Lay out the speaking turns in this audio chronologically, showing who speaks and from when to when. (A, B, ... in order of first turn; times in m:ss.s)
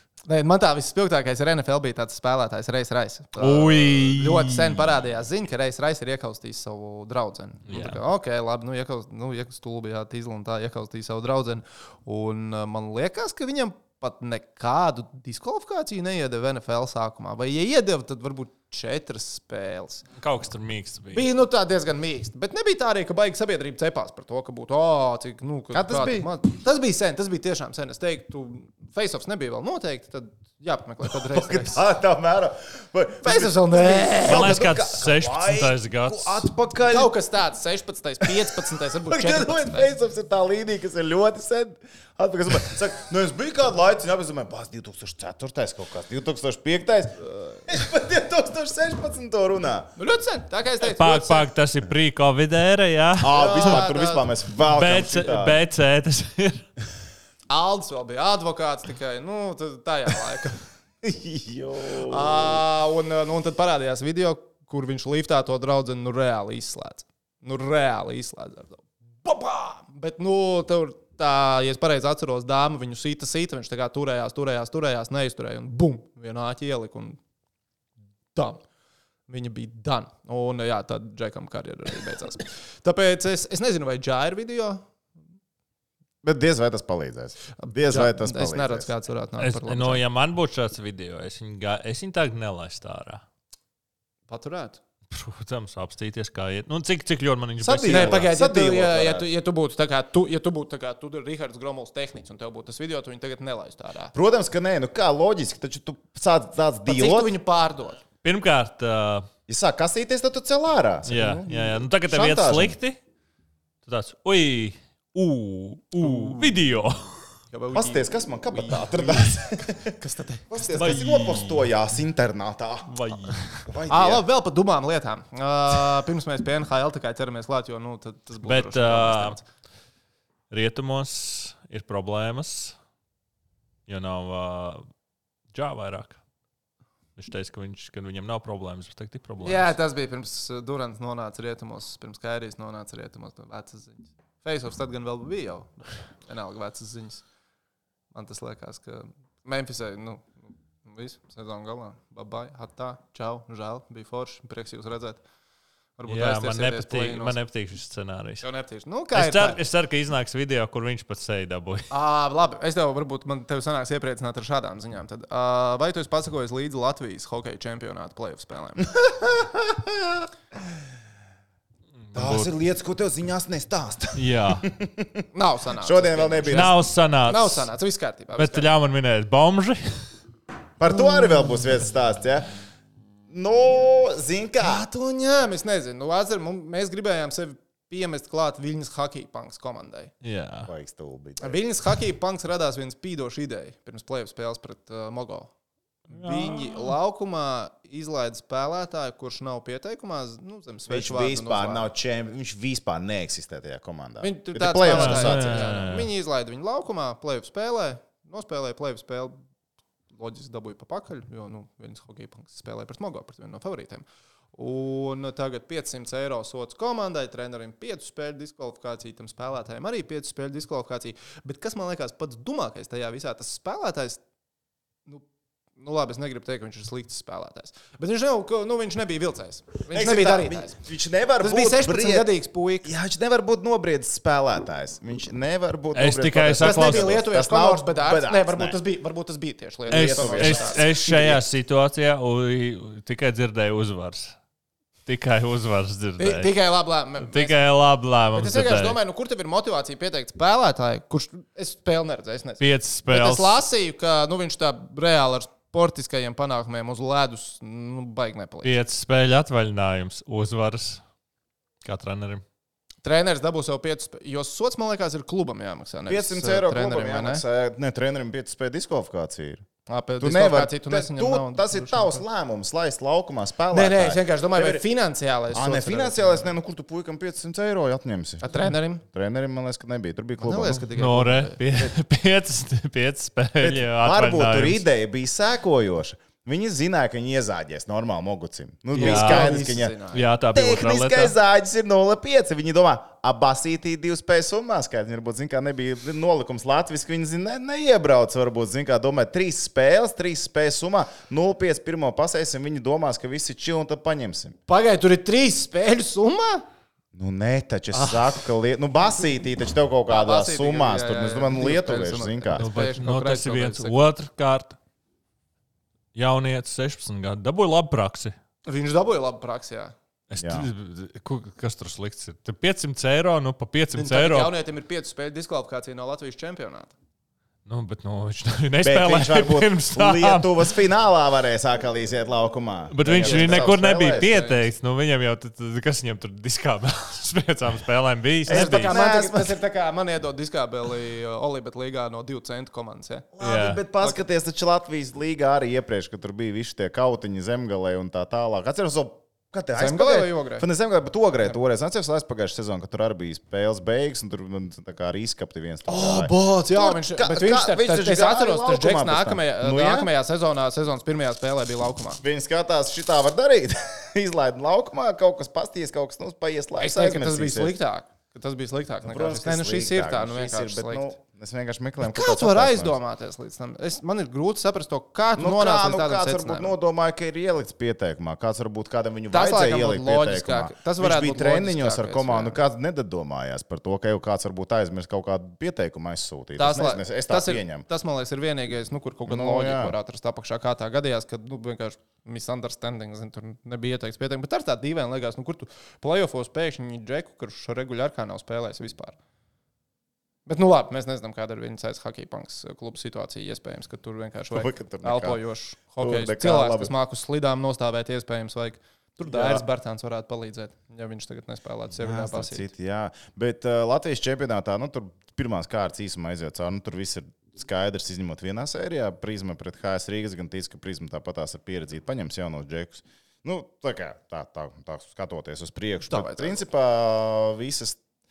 0:00.3-0:20.1 A
0:03.4-0:05.0 B
0:07.7-0:08.0 B
0:20.1-0:21.2 B
0:21.1-0:31.8 A
0:25.7-0:26.3 C
0:31.1-0:37.1 C
0:33.2-0:34.5 A
0:34.2-0:36.5 B
0:36.9-0:39.9 A
0:38.2-0:49.9 C
0:50.0-0:51.5 A
0:50.8-0:53.8 B
0:53.2-0:55.6 C
0:53.3-0:54.2 A
0:54.6-0:56.7 B
0:57.5-1:00.6 A
1:01.0-1:02.6 C
1:02.0-1:17.2 A
1:18.3-1:18.6 A
1:19.3-1:24.8 A
1:26.2-1:28.9 C
1:27.6-1:30.0 A
1:29.4-1:33.2 B
1:34.3-1:34.8 A
1:35.1-1:38.3 B
1:37.6-1:39.3 C
1:37.9-1:44.1 A
1:44.1-1:47.3 C
1:46.9-1:48.0 A
1:48.2-1:49.3 B
1:49.5-1:52.8 C
1:51.1-1:53.0 B
1:51.1-1:51.7 A
1:53.8-1:57.3 B
1:56.0-1:56.5 A
1:57.5-2:00.6 A
1:57.7-2:00.0 C
2:00.5-2:04.2 C
2:00.7-2:01.7 B
2:02.9-2:03.6 B
2:03.9-2:09.5 A
2:08.4-2:09.4 B
2:10.5-2:12.8 B
2:13.9-2:14.9 B
2:15.5-2:16.2 B
2:17.2-2:19.8 B
2:19.4-2:27.2 A
2:28.1-2:35.2 A
2:36.0-2:37.4 A
2:36.1-2:38.5 B
2:38.4-2:39.6 A
2:39.1-2:41.9 B
2:41.9-2:48.9 A
2:49.0-2:50.2 C
2:52.1-2:52.5 B
2:52.2-2:55.3 C
2:54.2-2:54.7 B
2:55.3-2:58.7 A
2:55.8-2:56.7 C
2:56.5-2:57.7 B
2:58.4-3:00.1 B
3:00.8-3:02.5 C
3:03.3-3:04.8 C
3:04.6-3:10.1 A
3:10.2-3:10.7 B
3:10.7-3:11.6 C
3:11.4-3:15.5 A
3:16.1-3:16.9 B
3:16.1-3:21.9 A
3:20.9-3:26.0 C
3:24.2-3:29.4 A
3:24.8-3:26.1 B
3:30.1-3:44.2 A
3:45.8-3:50.8 A
3:49.9-3:52.3 C
3:51.4-3:52.9 A
3:52.8-3:58.8 C
3:56.0-3:57.1 B
3:56.6-4:01.4 A
3:59.9-4:01.4 C
3:59.9-4:04.4 B
4:05.0-4:06.5 B
4:06.2-4:07.6 A
4:07.2-4:09.0 B
4:08.3-4:18.8 A
4:12.6-4:13.6 B
4:18.6-4:21.0 B
4:21.8-4:22.4 B
4:23.0-4:27.4 A
4:26.1-4:29.7 C
4:29.9-4:32.2 A
4:30.2-4:34.8 C
4:33.7-4:36.5 A
4:35.5-4:38.5 C
4:38.4-4:39.0 A
4:39.0-4:40.9 C
4:40.4-4:41.6 A
4:41.0-4:44.8 B
4:43.6-4:50.0 C
4:48.9-4:50.2 A
4:49.0-4:51.4 B
4:50.5-5:04.6 C
5:04.7-5:06.6 A
5:07.1-5:12.6 C
5:08.0-5:08.3 A
5:10.1-5:14.0 A
5:12.5-5:14.8 B
5:16.1-5:18.4 B
5:18.6-5:20.0 A
5:20.3-5:24.5 B
5:20.4-5:20.7 C
5:24.0-5:26.9 A
5:27.7-5:30.7 B
5:28.8-5:34.3 C
5:32.9-5:39.0 B
5:33.2-5:34.7 A
5:38.5-5:39.6 C
5:38.5-5:43.3 A
5:43.4-6:00.1 C
5:43.4-5:43.8 B
5:49.8-5:50.7 A
5:55.9-6:02.2 A
6:02.2-6:07.7 C
6:06.8-6:11.1 A
6:09.0-6:13.0 C
6:12.0-6:16.7 A
6:15.4-6:27.9 C
6:19.3-6:22.6 A
6:26.6-6:39.2 A
6:29.3-6:30.0 C
6:40.5-6:52.7 A
6:44.5-6:45.4 C
6:46.0-6:46.9 C
6:49.2-6:49.6 C
6:52.0-7:08.0 C
7:06.1-7:06.6 A